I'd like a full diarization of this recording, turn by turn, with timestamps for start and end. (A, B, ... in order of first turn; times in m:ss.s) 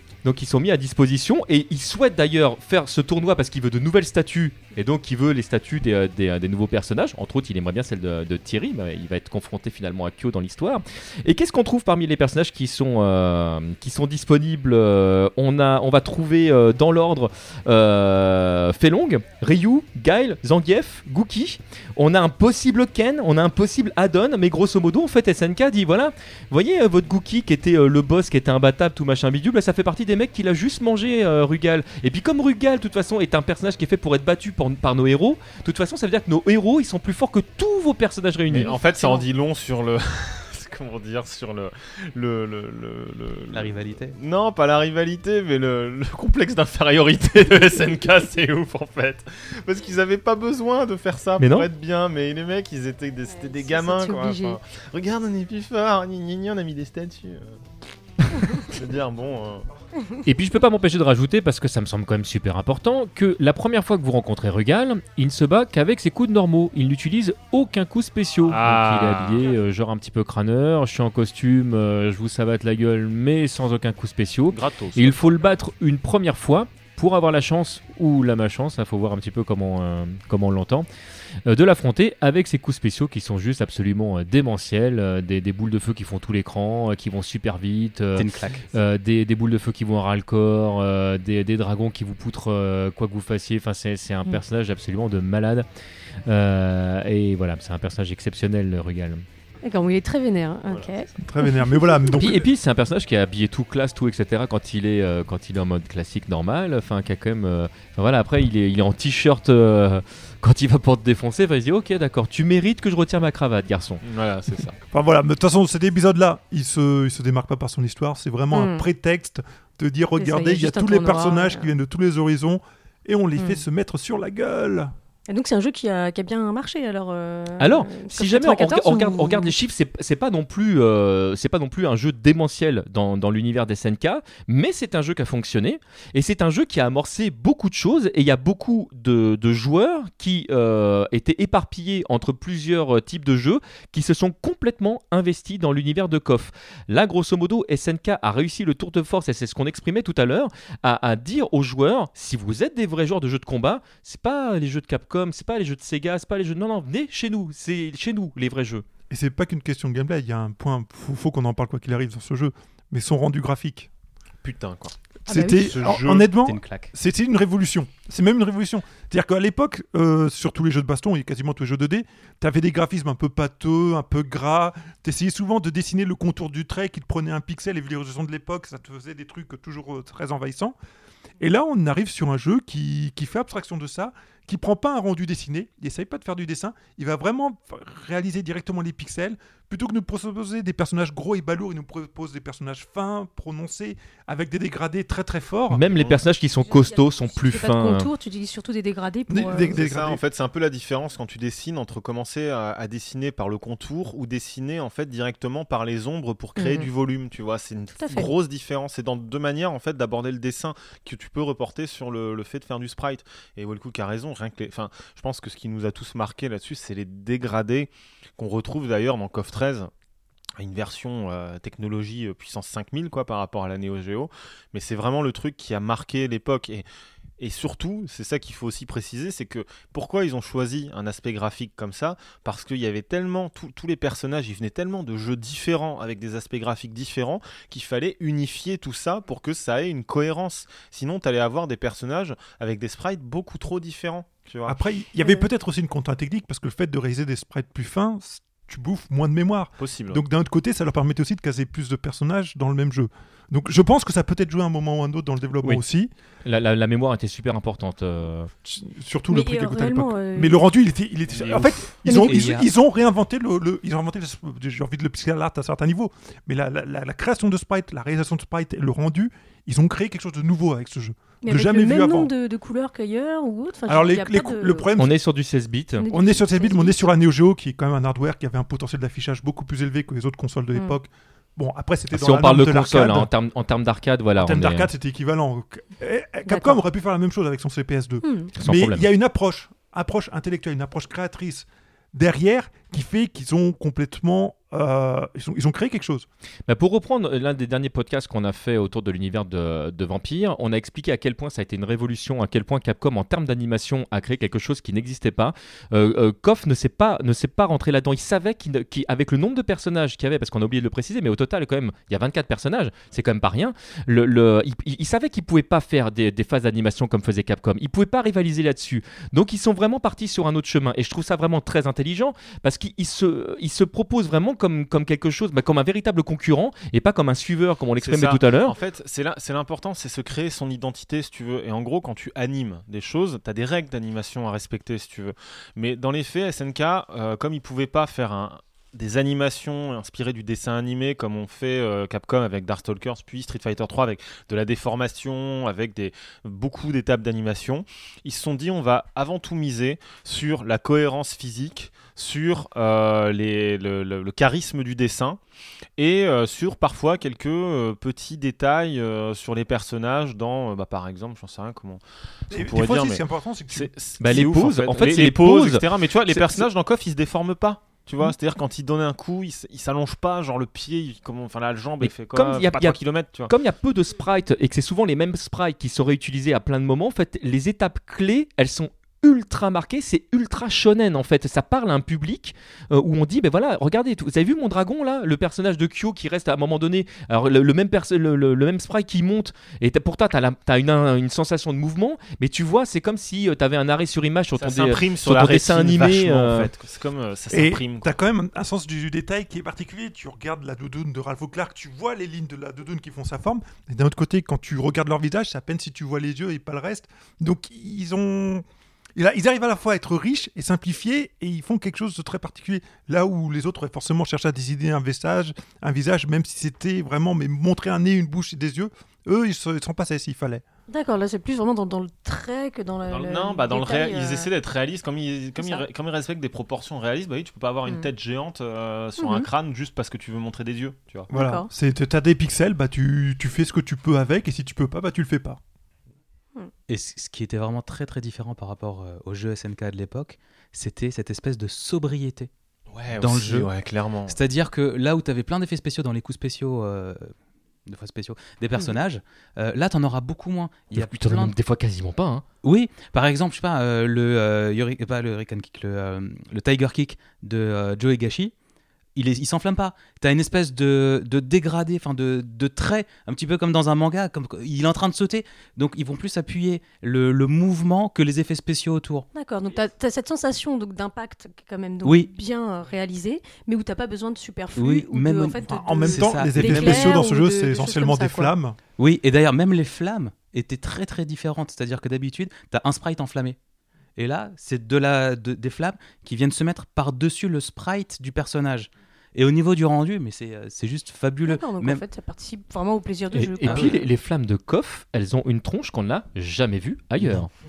0:00.2-0:38.8 A
0:38.5-0:57.6 B
0:38.7-0:39.2 C
0:43.5-0:44.2 D
0:51.4-0:51.7 A
0:53.3-0:54.6 C
0:58.3-0:58.7 C
0:58.5-0:59.7 B
1:00.0-1:00.2 C
1:00.2-1:20.9 A
1:08.4-1:09.5 B
1:14.5-1:15.3 B
1:21.4-1:35.6 A
1:28.1-1:28.6 D
1:36.2-1:39.2 A
1:39.6-1:42.2 C
1:40.7-1:41.1 B
1:41.2-1:42.4 E
1:42.2-1:54.0 A
1:54.0-1:54.8 B
1:54.9-2:04.9 E
1:58.5-1:58.8 C
2:00.2-2:01.7 C
2:03.4-2:03.6 C
2:05.3-2:09.5 C
2:07.6-2:38.8 A
2:39.1-2:43.9 E
2:44.4-2:45.0 B
2:45.2-3:00.7 E
2:45.3-2:45.7 C
2:45.5-2:46.3 B
2:46.4-2:46.9 D
3:01.4-3:15.8 E
3:15.7-3:18.1 A
3:15.9-3:16.2 B
3:16.6-3:19.8 C
3:19.3-3:20.2 E
3:19.6-3:39.9 B
3:26.6-3:26.9 C
3:28.0-3:28.3 C
3:40.6-3:46.8 B
3:47.4-4:04.8 B
4:04.7-4:16.1 E
4:09.8-4:10.2 B
4:16.4-4:18.5 A
4:18.6-4:32.3 E
4:19.3-4:20.6 C
4:21.3-4:21.9 B
4:22.0-4:22.5 C
4:22.1-4:22.7 D
4:31.4-4:34.9 C
4:33.9-4:35.1 E
4:35.0-4:36.1 A
4:36.0-4:37.0 C
4:36.1-4:43.3 E
4:42.1-4:44.9 A
4:44.4-4:56.2 E
4:46.4-4:46.8 C
4:48.2-4:48.5 C
4:48.6-4:49.1 A
4:56.7-5:28.7 A
5:28.0-5:55.4 B
5:56.0-6:02.0 B
6:02.5-6:03.9 E
6:02.5-6:13.5 B
6:04.2-6:06.6 A
6:12.0-6:36.7 A
6:34.6-6:38.1 B
6:37.5-6:48.6 E
6:49.2-7:00.6 E
7:00.9-7:04.5 C
7:03.1-7:11.3 B
7:05.6-7:05.8 C
7:09.2-7:09.5 C
7:11.3-7:15.6 E
7:11.3-7:11.7 C
7:16.9-7:22.5 D
7:22.9-7:24.4 B
7:23.2-7:23.7 D
7:24.3-7:27.3 D
7:27.8-7:31.5 D
7:30.9-7:32.4 A
7:32.6-7:38.5 D
7:39.1-7:49.3 D
7:49.3-7:58.5 C
7:54.7-7:57.2 D
7:55.6-7:58.8 E
7:59.0-8:03.6 D
8:04.2-8:12.0 D
8:11.5-8:14.0 C
8:13.3-8:17.5 A
8:13.6-8:13.9 D